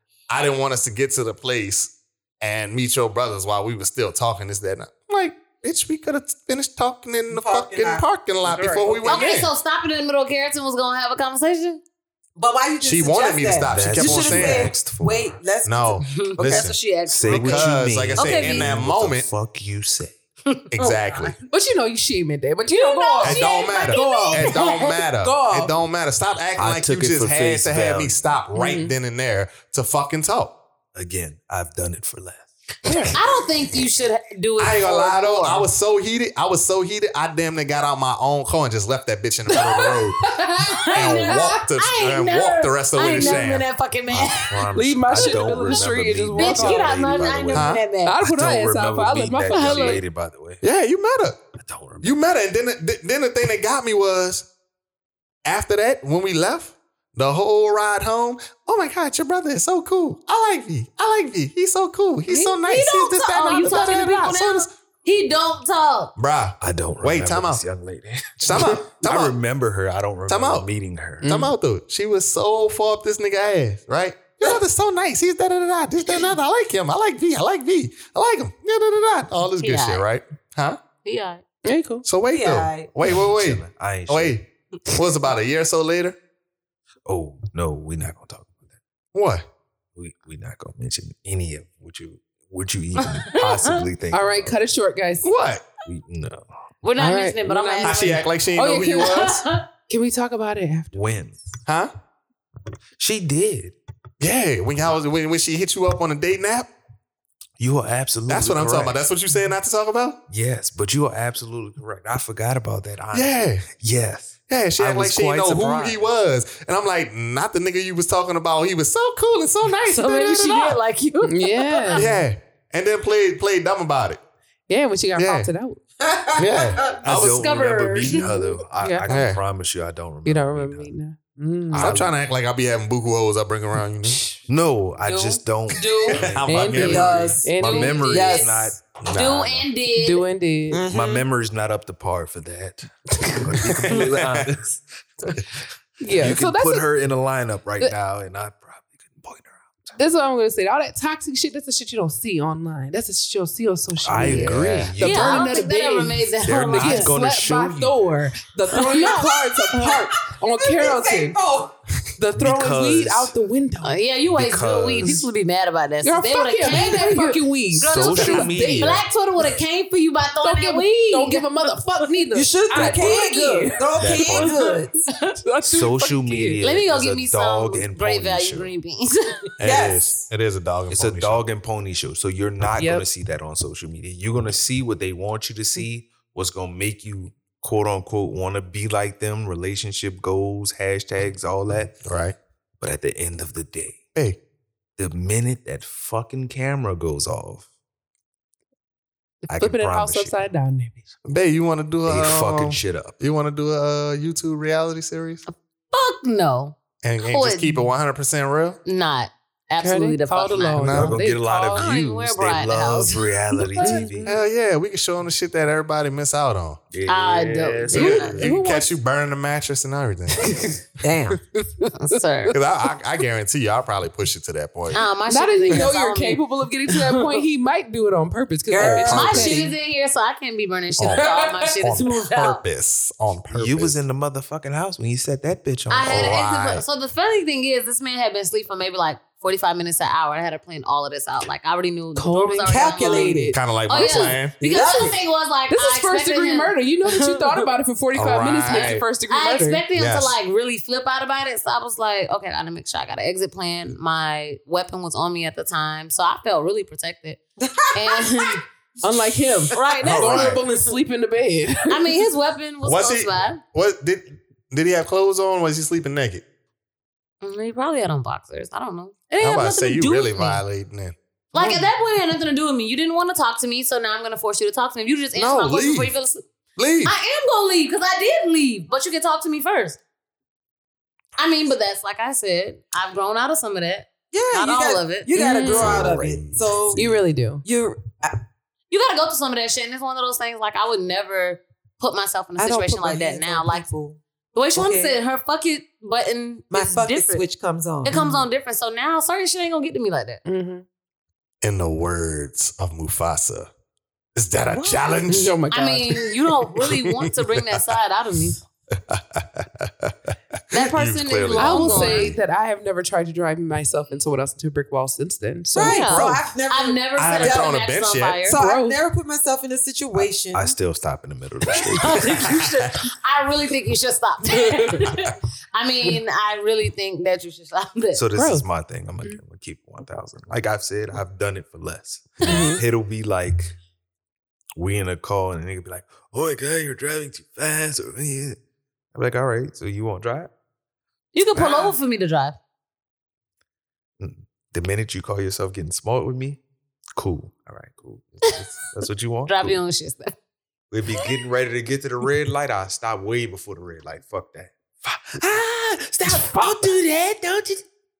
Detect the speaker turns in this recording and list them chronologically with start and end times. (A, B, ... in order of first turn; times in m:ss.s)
0:00.3-0:09.5 A
0:07.3-0:09.3 B
0:09.1-0:11.8 C
0:12.4-0:16.7 B
0:12.8-0:14.7 A
0:13.7-0:15.4 D
0:15.6-0:19.3 A
0:16.0-0:18.7 C
0:17.1-0:20.2 D
0:20.5-0:21.4 C
0:20.7-0:21.4 A
0:21.5-0:25.7 E
0:22.7-0:25.0 C
0:23.2-0:30.5 A
0:26.6-0:28.2 D
0:28.5-0:29.0 E
0:31.0-0:33.2 D
0:32.9-0:33.2 A
0:33.2-0:35.7 C
0:34.6-0:40.2 A
0:39.5-0:41.6 E
0:40.7-0:48.2 C
0:40.9-0:43.7 A
0:43.2-0:43.4 E
0:44.1-0:50.6 D
0:44.7-0:47.3 E
0:47.5-0:47.8 A
0:48.0-0:50.0 E
0:49.5-0:50.0 C
0:50.6-0:51.4 A
0:51.6-0:52.1 D
0:52.0-0:54.5 A
0:55.4-1:04.7 A
1:02.3-1:06.1 C
1:03.5-1:04.3 E
1:06.2-1:07.6 A
1:06.6-1:11.3 D
1:08.4-1:09.4 A
1:10.3-1:10.7 A
1:11.2-1:11.5 E
1:11.2-1:20.8 A
1:19.6-1:20.0 C
1:21.0-1:21.4 C
1:21.6-1:22.0 E
1:22.0-1:26.2 A
1:22.3-1:22.9 B
1:23.0-1:24.4 D
1:27.1-1:28.6 D
1:29.1-1:29.4 A
1:30.0-1:34.6 D
1:34.1-1:35.3 E
1:35.2-1:35.6 A
1:35.9-1:36.6 D
1:36.8-1:38.2 C
1:37.0-1:39.4 E
1:37.8-1:39.4 A
1:39.0-1:39.7 C
1:39.9-1:41.0 E
1:40.9-1:41.4 D
1:41.7-1:41.9 A
1:43.0-1:43.8 D
1:44.2-1:46.7 A
1:47.6-1:49.1 D
1:48.3-1:50.2 A
1:50.3-1:56.0 D
1:53.1-1:53.7 A
1:54.5-2:00.8 A
1:59.8-2:02.1 C
2:01.2-2:02.2 E
2:01.9-2:04.2 A
2:04.7-2:05.8 E
2:05.2-2:05.5 A
2:06.0-2:07.0 B
2:06.4-2:07.5 A
2:07.0-2:10.9 D
2:07.2-2:08.3 C
2:08.2-2:09.2 E
2:09.1-2:09.4 A
2:10.2-2:12.0 E
2:11.7-2:12.1 D
2:11.8-2:14.2 A
2:14.5-2:19.3 D
2:15.0-2:16.2 C
2:16.1-2:17.4 A
2:16.5-2:18.3 E
2:16.7-2:17.6 B
2:17.6-2:20.3 C
2:18.1-2:18.7 B
2:19.0-2:19.6 A
2:19.9-2:20.9 E
2:20.7-2:21.3 B
2:20.9-2:25.4 D
2:23.7-2:24.5 A
2:26.0-2:26.9 E
2:26.1-2:30.0 D
2:30.0-2:41.4 E
2:34.0-2:35.5 D
2:34.3-2:34.8 A
2:35.0-2:37.1 C
2:36.4-2:38.1 D
2:38.7-2:39.3 C
2:38.9-2:41.7 B
2:42.2-2:44.0 E
2:42.4-2:43.3 D
2:43.8-2:52.1 C
2:44.3-2:45.2 D
2:46.0-2:49.1 E
2:47.7-2:49.0 D
2:50.4-2:56.6 E
2:52.3-2:54.9 B
2:52.7-2:53.7 C
2:54.0-2:54.6 D
2:55.6-2:58.7 D
2:56.6-2:59.5 C
2:59.6-3:01.4 A
2:59.6-3:00.1 B
3:00.9-3:12.0 D
3:02.8-3:03.0 E
3:12.0-3:12.4 A
3:12.8-3:14.0 D
3:15.0-3:17.7 D
3:19.5-3:20.5 D
3:19.5-3:21.1 E
3:21.3-3:25.4 A
3:22.1-3:23.2 D
3:25.5-3:26.8 C
3:27.0-3:28.8 A
3:27.3-3:27.9 C
3:28.9-3:31.0 C
3:29.8-3:31.9 E
3:30.8-3:31.2 A
3:30.8-3:34.3 D
3:31.7-3:34.1 C
3:33.7-3:34.4 E
3:34.3-3:36.8 A
3:36.9-3:38.5 D
3:37.1-3:38.4 C
3:37.9-3:39.0 E
3:37.9-3:40.6 A
3:40.4-3:40.8 E
3:41.0-3:41.4 B
3:41.3-3:42.5 E
3:42.0-3:42.6 C
3:42.5-3:45.0 A
3:44.9-3:47.4 C
3:45.3-3:49.7 E
3:48.7-3:49.7 B
3:48.8-3:52.6 C
3:49.1-3:49.6 A
3:51.0-3:54.0 A
3:51.1-3:51.8 E
3:53.5-3:56.4 D
3:55.9-4:07.7 C
3:56.0-3:56.8 A
4:02.2-4:05.0 E
4:02.7-4:03.5 B
4:03.5-4:04.6 A
4:04.6-4:05.2 B
4:05.7-4:09.8 E
4:08.1-4:09.0 A
4:08.7-4:17.4 C
4:09.9-4:10.4 A
4:17.6-4:18.6 B
4:17.9-4:18.6 C
4:19.0-4:22.2 E
4:19.1-4:19.9 B
4:19.7-4:20.7 C
4:20.0-4:20.6 A
4:21.9-4:23.6 C
4:22.8-4:26.4 A
4:27.4-4:30.6 C
4:29.4-4:31.1 A
4:31.5-4:36.4 C
4:31.6-4:31.9 E
4:35.3-4:36.1 A
4:36.8-4:37.1 A
4:37.0-4:40.0 C
4:41.4-4:45.9 C
4:44.3-4:47.0 B
4:45.4-4:46.1 E
4:45.7-4:47.2 A
4:47.0-4:47.6 E
4:47.6-4:48.4 B
4:48.9-4:53.9 C
4:52.6-4:54.2 B
4:54.6-4:57.4 C
4:54.8-4:55.2 B
4:56.7-4:58.2 B
4:58.0-5:00.4 C
4:58.1-4:58.4 E
5:00.4-5:00.8 E
5:01.6-5:03.7 A
5:04.4-5:05.6 A
5:04.7-5:05.3 B
5:05.3-5:06.2 E
5:05.7-5:08.6 C
5:06.8-5:07.9 A
5:09.1-5:10.1 A
5:10.7-5:12.4 A
5:10.7-5:12.3 C
5:11.6-5:16.4 E
5:15.7-5:17.7 B
5:15.8-5:18.6 C
5:17.2-5:18.4 A
5:18.5-5:20.8 B
5:18.5-5:19.0 E
5:20.5-5:22.4 D
5:22.0-5:28.2 C
5:22.4-5:22.9 A
5:24.5-5:24.9 E
5:28.2-5:33.8 D
5:28.3-5:28.7 E
5:32.4-5:32.8 E
5:32.4-5:32.8 C
5:34.8-5:38.6 D
5:39.1-5:40.5 D
5:41.3-5:42.6 C
5:44.2-5:46.6 D
5:47.2-5:49.8 D
5:49.5-5:50.3 C
5:50.9-5:57.8 D
5:56.3-5:56.9 E